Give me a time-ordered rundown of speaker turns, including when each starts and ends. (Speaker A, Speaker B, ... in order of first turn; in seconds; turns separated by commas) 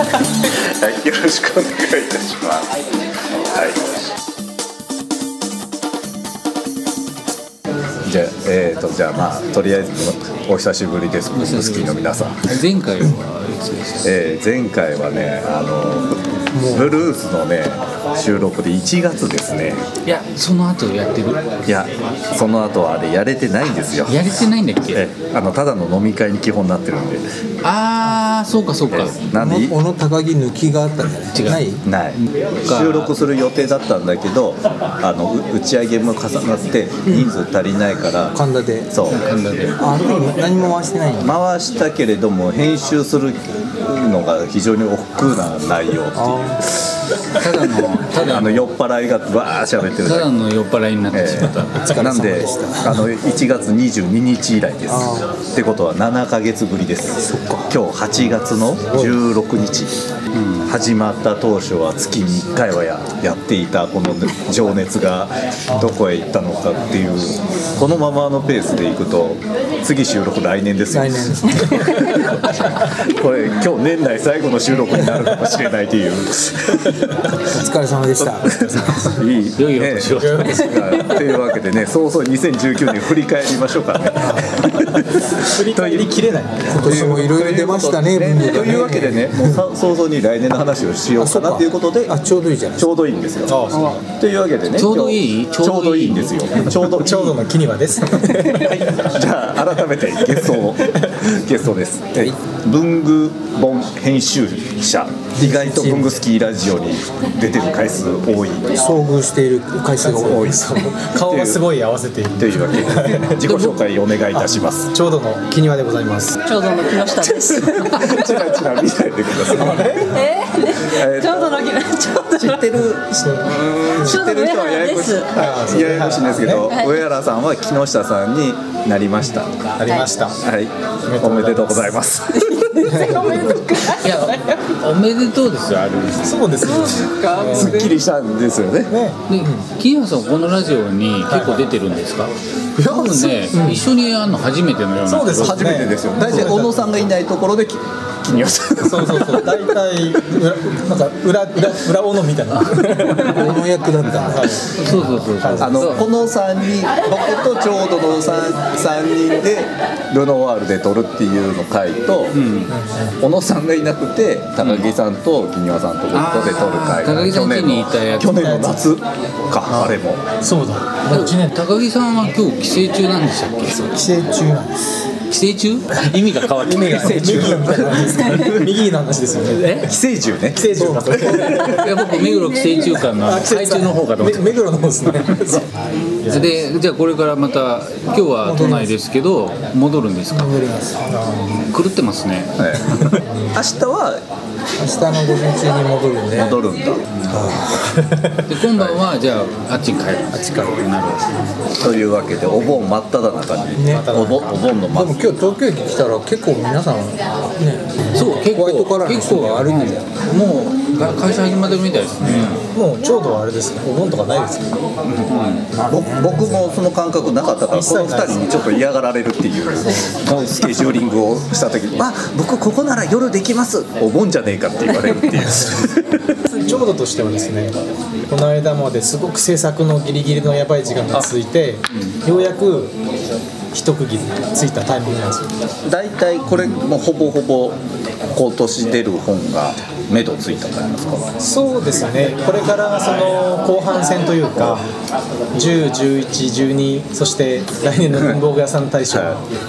Speaker A: 0.3-4.0, Speaker A: 8.0-12.5, Speaker B: 11.3-14.1, Speaker A: 14.0-19.8, Speaker C: 16.5-17.0, Speaker B: 20.0-21.7, Speaker A: 21.6-24.2, Speaker B: 24.0-25.0, Speaker A: 24.9-27.2, Speaker B: 27.6-29.2, Speaker A: 28.9-29.8, Speaker D: 29.3-31.8, Speaker B: 31.3-31.6, Speaker A: 31.8-38.4, Speaker B: 32.6-33.1, Speaker D: 38.3-38.9, Speaker A: 38.9-39.2, Speaker B: 39.1-39.8, Speaker D: 39.8-41.3, Speaker A: 41.2-46.9, Speaker D: 46.1-46.5, Speaker B: 47.4-48.6, Speaker A: 48.2-50.3, Speaker B: 50.0-51.9, Speaker A: 51.1-60.0, Speaker C: 51.6-53.0, Speaker C: 54.9-55.1, Speaker D: 55.0-55.3, Speaker D: 57.3-57.7, Speaker C: 58.9-59.2, Speaker B: 60.3-60.7, Speaker A: 60.6-77.3, Speaker D: 70.9-71.3, Speaker C: 71.3-72.0, Speaker C: 77.0-77.5, Speaker D: 77.5-79.1, Speaker A: 78.2-92.2, Speaker C: 78.5-79.0, Speaker B: 79.5-80.7, Speaker C: 80.2-80.9, Speaker C: 84.1-87.2, Speaker D: 86.7-89.6, Speaker D: 91.2-92.9, Speaker A: 92.8-97.4, Speaker C: 93.5-94.0, Speaker B: 94.7-96.6, Speaker C: 96.9-99.1, Speaker A: 98.2-108.7, Speaker C: 100.3-101.2, Speaker C: 105.4-106.1, Speaker D: 108.8-110.5, Speaker C: 110.0-113.8, Speaker A: 110.2-111.6, Speaker A: 112.4-114.9, Speaker C: 114.3-116.4, Speaker E: 116.4-118.2, Speaker A: 117.0-120.2, Speaker C: 119.4-120.1, Speaker E: 120.0-122.7, Speaker A: 120.8-121.8, Speaker A: 122.3-129.5, Speaker C: 123.1-124.2, Speaker E: 124.0-125.4, Speaker C: 125.3-126.8, Speaker E: 126.7-127.0, Speaker C: 129.2-130.4, Speaker E: 129.8-130.1, Speaker A: 130.4-132.4, Speaker C: 131.1-132.0, Speaker E: 132.3-134.6, Speaker C: 132.8-133.6, Speaker B: 133.8-136.4, Speaker C: 136.2-137.9, Speaker E: 136.6-137.9, Speaker A: 137.4-138.9, Speaker C: 138.9-139.7, Speaker B: 139.3-145.9, Speaker C: 141.3-141.6, Speaker C: 142.8-143.8, Speaker C: 145.0-147.0, Speaker A: 145.4-149.7, Speaker C: 148.8-153.7, Speaker B: 153.2-153.4, Speaker D: 153.4-154.4, Speaker C: 154.2-156.0, Speaker B: 154.7-156.1, Speaker A: 155.6-162.4, Speaker B: 162.3-162.7, Speaker C: 162.7-163.1, Speaker A: 163.1-170.2, Speaker B: 164.6-164.9, Speaker B: 166.1-168.6, Speaker C: 168.3-168.8, Speaker C: 169.7-171.6, Speaker B: 171.1-174.0, Speaker C: 173.9-174.8, Speaker B: 175.3-178.3, Speaker C: 176.6-179.9, Speaker A: 176.8-178.6, Speaker B: 179.5-179.9, Speaker A: 179.8-181.9, Speaker C: 180.5-181.9, Speaker B: 181.3-184.9, Speaker E: 182.0-183.0, Speaker C: 183.1-186.6, Speaker E: 185.9-186.3, Speaker B: 186.3-190.7, Speaker C: 188.4-188.9, Speaker C: 190.3-191.6, Speaker B: 191.6-192.6, Speaker A: 192.6-194.2, Speaker C: 192.9-193.6, Speaker D: 194.8-196.6, Speaker A: 196.3-197.9, Speaker B: 197.2-197.5, Speaker C: 197.3-198.4, Speaker B: 198.4-201.4, Speaker A: 198.7-199.0, Speaker C: 200.3-200.8, Speaker A: 201.7-205.2, Speaker C: 203.8-204.5, Speaker D: 204.9-210.0, Speaker B: 208.1-212.6, Speaker C: 212.4-214.8, Speaker B: 215.3-215.7, Speaker A: 215.8-226.4, Speaker C: 215.9-216.7, Speaker C: 217.7-218.4, Speaker C: 226.4-233.0, Speaker C: 233.7-235.5, Speaker A: 235.8-241.3, Speaker C: 241.4-244.9, Speaker A: 244.5-244.8, Speaker C: 245.5-249.4, Speaker A: 249.1-249.4